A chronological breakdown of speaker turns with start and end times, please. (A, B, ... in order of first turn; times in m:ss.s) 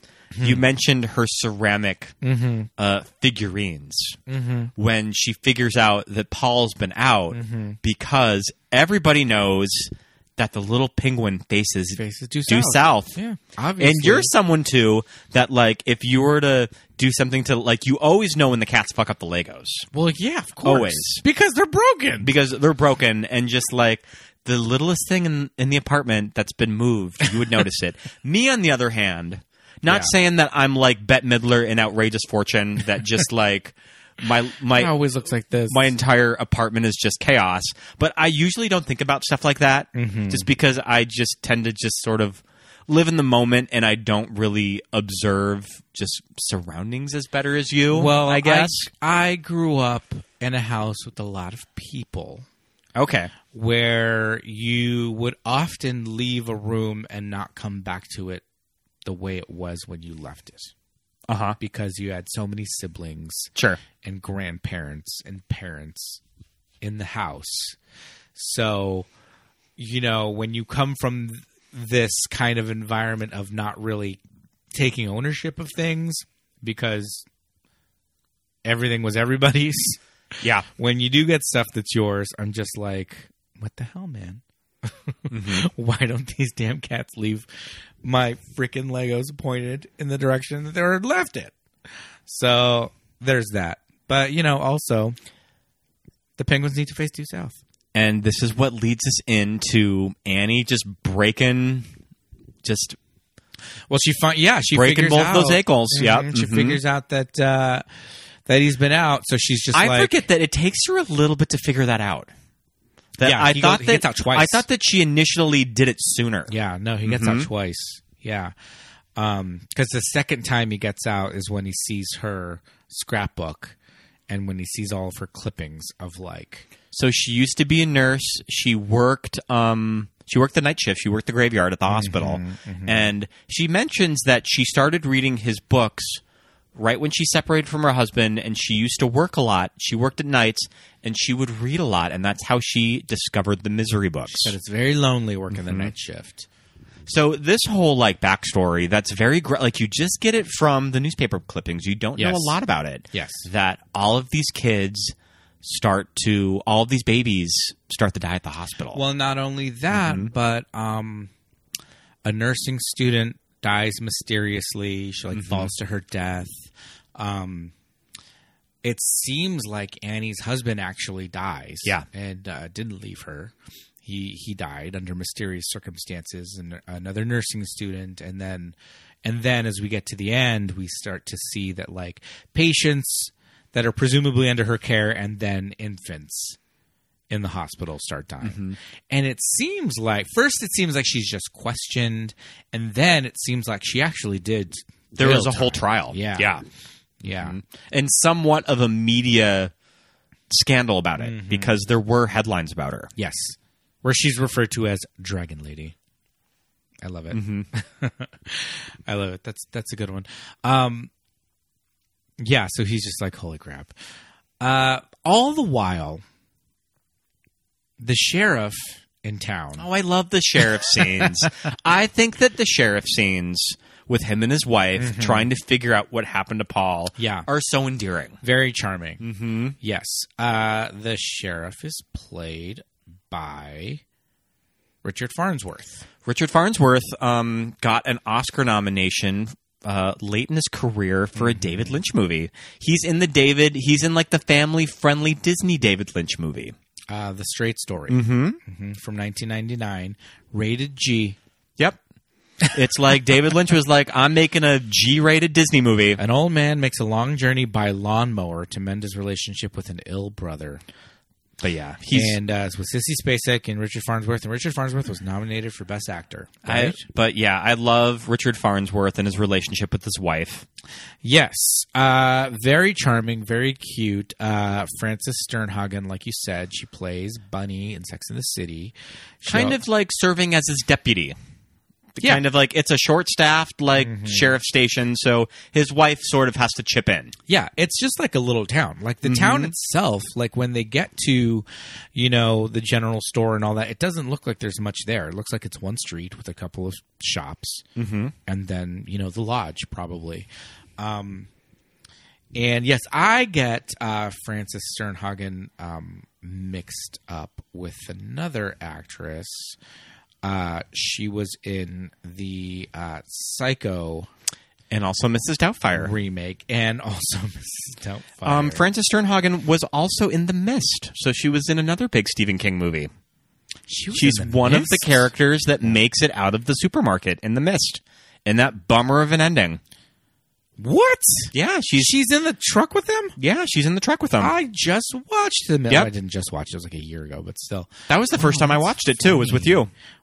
0:00.3-0:00.6 A
0:00.4-0:02.2 B
0:02.2-0:02.7 A
0:02.8-0:04.2 B
0:04.3-0:04.7 A
0:04.8-0:13.2 B
0:07.3-0:07.8 A
0:12.0-0:14.3 A
0:13.8-0:19.9 B
0:19.9-0:22.3 A
0:20.6-0:21.2 B
0:22.2-0:34.9 B
0:29.9-0:30.1 A
0:34.7-0:35.9 A
0:35.7-0:48.9 B
0:40.0-0:40.5 A
0:47.9-0:52.4 A
0:53.0-0:53.3 B
0:53.5-0:58.4 A
0:59.0-1:00.7 A
1:01.3-1:01.6 B
1:01.6-1:06.2 A
1:03.6-1:03.8 B
1:06.8-1:07.8 A
1:08.4-1:09.1 A
1:09.8-1:14.2 A
1:14.7-1:17.2 A
1:18.6-1:20.0 A
1:20.4-1:20.7 B
1:20.7-1:27.5 A
1:25.3-1:25.7 B
1:28.0-1:31.5 A
1:32.3-1:35.2 A
1:36.4-1:37.6 A
1:37.9-1:41.9 B
1:42.6-1:43.0 B
1:43.9-1:47.8 A
1:44.7-1:46.8 B
1:48.5-1:50.2 A
1:49.7-1:52.3 B
1:53.2-1:56.5 B
1:53.2-1:54.6 A
1:56.5-1:58.5 A
1:57.1-1:57.5 B
1:59.2-2:03.8 A
2:04.3-2:06.7 A
2:06.9-2:16.2 B
2:11.9-2:13.1 A
2:16.8-2:24.6 B
2:24.3-2:26.5 A
2:25.5-2:25.9 B
2:27.1-2:39.0 B
2:32.2-2:32.6 A
2:33.1-2:33.5 A
2:38.9-2:41.3 A
2:39.9-2:40.3 B
2:42.2-2:47.7 A
2:45.3-2:45.7 B
2:48.8-3:06.6 A
3:07.3-3:16.6 A
3:08.4-3:08.8 B
3:15.2-3:16.6 B
3:17.2-3:17.6 A
3:17.4-3:19.7 B
3:20.5-3:23.1 B
3:21.2-3:21.8 A
3:23.2-3:26.0 A
3:27.0-3:31.1 A
3:27.3-3:27.7 B
3:32.4-3:33.9 A
3:34.6-3:36.2 A
3:38.0-3:39.9 A
3:39.8-3:48.4 B
3:40.9-3:41.5 A
3:45.0-3:45.5 A
3:47.2-3:47.5 A
3:48.4-3:49.2 A
3:49.2-3:49.8 B
3:49.8-3:54.0 A
3:55.0-3:56.0 A
3:56.2-4:06.8 B
4:01.4-4:02.0 A
4:07.1-4:11.4 A
4:08.1-4:08.6 B
4:12.7-4:16.2 B
4:16.2-4:20.8 A
4:21.6-4:22.4 B
4:22.1-4:27.0 A
4:26.7-4:30.7 B
4:31.2-4:39.8 A
4:39.5-4:41.4 B
4:42.2-4:47.3 B
4:42.2-4:42.4 A
4:44.0-4:44.5 A
4:47.5-4:57.8 A
4:49.2-4:49.7 B
4:58.0-4:58.3 B
4:58.5-5:01.5 A
5:02.6-5:09.8 A
5:10.4-5:14.3 A
5:14.9-5:16.1 B
5:16.0-5:18.8 A
5:18.4-5:23.1 B
5:23.9-5:25.3 A
5:24.1-5:29.8 B
5:30.8-5:33.4 A
5:31.5-5:32.1 B
5:33.4-5:34.5 B
5:34.4-5:39.8 A
5:38.1-5:39.9 B